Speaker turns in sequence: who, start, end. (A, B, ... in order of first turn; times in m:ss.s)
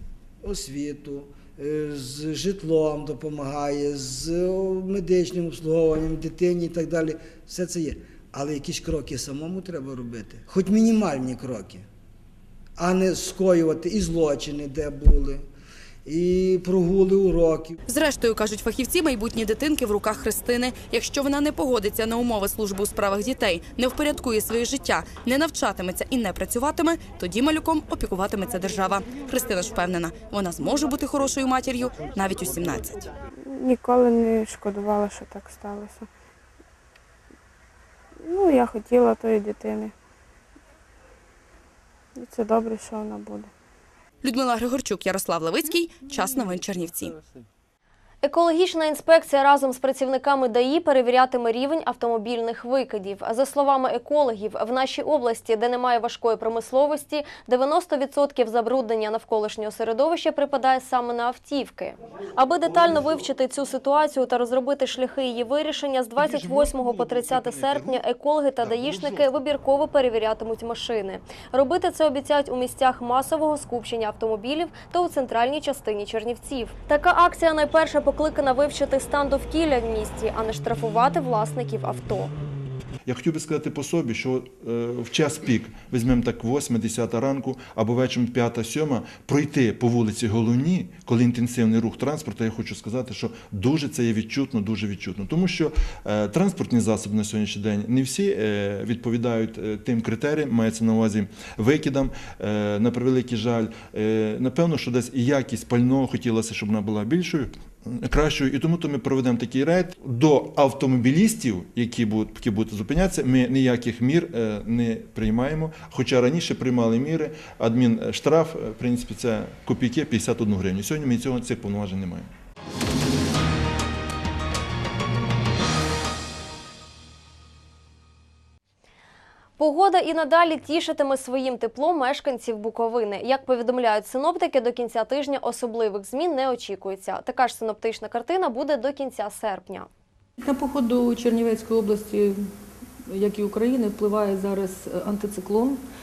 0:00.4-0:11.8 A
0:12.8-0:15.4 A
0:16.1-0:17.8 A
0:17.9-0:33.0 B
0:33.4-0:36.1 C
0:38.2-0:39.9 C
0:42.2-0:43.5 C
0:44.2-0:47.2 B
0:48.2-1:22.3 D
1:06.2-1:08.0 E
1:08.6-1:09.4 E
1:23.1-2:02.3 E
2:09.6-2:19.9 D
2:20.4-2:22.4 F
2:23.1-2:25.8 F